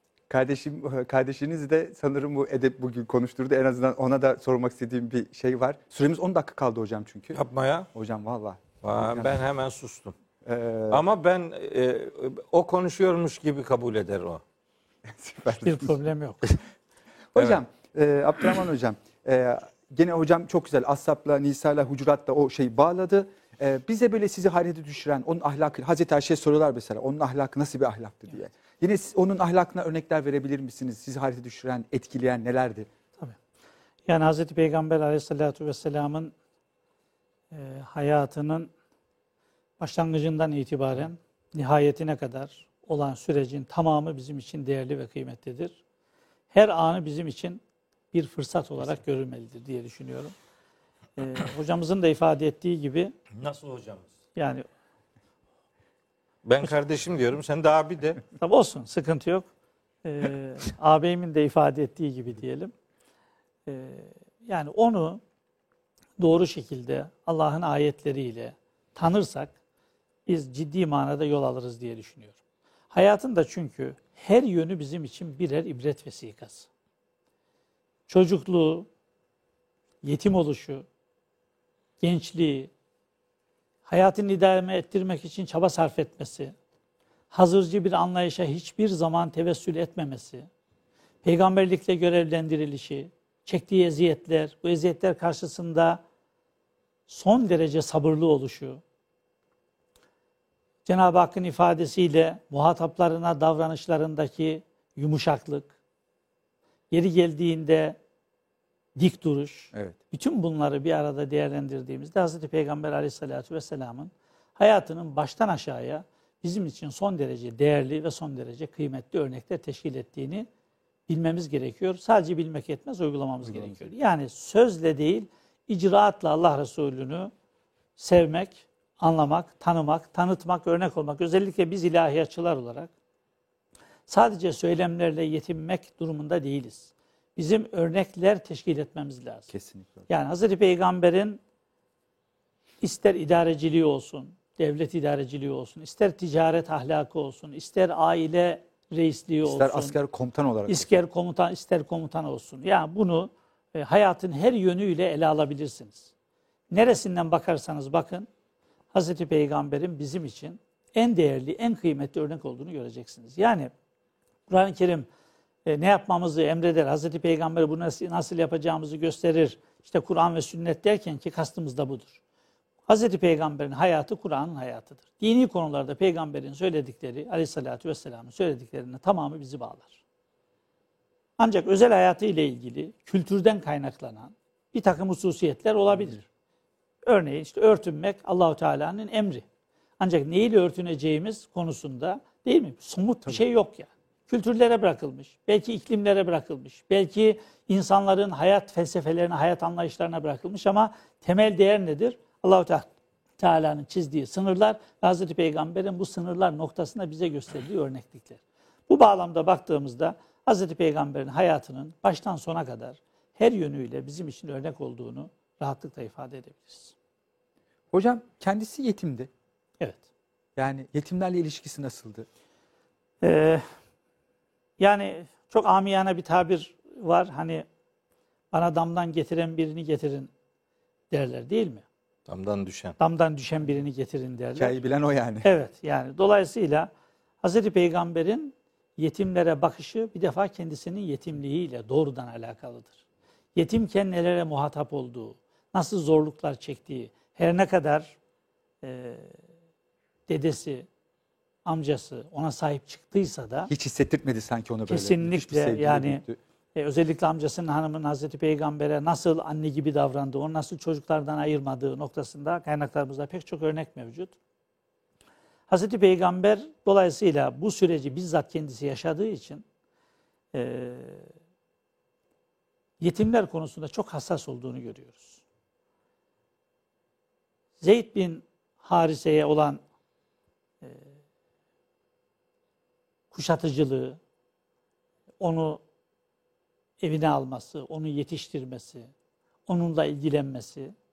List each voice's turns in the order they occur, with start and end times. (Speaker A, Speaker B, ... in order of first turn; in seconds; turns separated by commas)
Speaker A: 0.3-7.4, Speaker B: 7.3-7.9, Speaker A: 7.9-9.3, Speaker B: 8.8-10.1, Speaker A: 10.4-11.0, Speaker B: 10.9-14.4, Speaker A: 15.1-15.9, Speaker C: 15.6-16.6, Speaker A: 17.3-32.9, Speaker C: 34.1-36.3, Speaker C: 37.5-38.7, Speaker C: 39.8-45.8, Speaker C: 46.5-47.6, Speaker C: 48.1-50.3, Speaker C: 51.2-53.1, Speaker B: 53.4-54.1, Speaker C: 54.4-54.6, Speaker B: 56.4-58.2, Speaker C: 58.3-59.5, Speaker C: 60.0-62.7, Speaker C: 63.7-65.2, Speaker C: 66.2-69.5, Speaker C: 70.2-72.4, Speaker C: 72.9-76.7, Speaker C: 78.1-78.9, Speaker C: 80.0-80.8, Speaker C: 82.0-82.7, Speaker C: 83.8-86.5, Speaker C: 87.3-90.5, Speaker C: 91.2-96.0, Speaker C: 97.1-98.8, Speaker C: 100.8-105.7, Speaker C: 106.9-108.0, Speaker C: 109.0-120.5, Speaker C: 121.1-127.3, Speaker A: 123.4-123.8, Speaker C: 128.0-132.9, Speaker C: 134.1-139.5, Speaker A: 139.5-140.1, Speaker C: 140.1-141.4, Speaker C: 142.8-149.9, Speaker A: 149.4-151.0, Speaker C: 150.7-156.1, Speaker C: 156.7-158.3, Speaker C: 158.9-163.7, Speaker C: 164.5-165.1, Speaker C: 165.7-172.2, Speaker C: 172.9-180.0, Speaker C: 181.4-186.2, Speaker C: 187.0-189.4, Speaker C: 190.0-216.9, Speaker A: 217.9-219.3, Speaker C: 219.8-220.1, Speaker A: 220.6-222.3, Speaker C: 223.2-223.7, Speaker C: 224.8-227.6, Speaker C: 228.5-230.3, Speaker C: 231.1-231.8, Speaker B: 232.3-233.0, Speaker C: 233.0-234.8, Speaker A: 234.6-235.5, Speaker C: 235.4-236.9, Speaker C: 237.4-243.0, Speaker C: 243.5-248.2, Speaker C: 248.8-249.4, Speaker C: 250.3-250.9, Speaker C: 251.6-253.7, Speaker A: 253.7-256.4, Speaker C: 254.9-256.2, Speaker C: 256.7-264.3, Speaker C: 265.7-269.6, Speaker C: 270.5-271.3, Speaker C: 273.0-275.4, Speaker C: 277.8-279.8, Speaker C: 280.8-281.2, Speaker C: 283.3-284.2, Speaker C: 285.4-285.8, Speaker C: 287.0-289.1, Speaker C: 289.7-290.9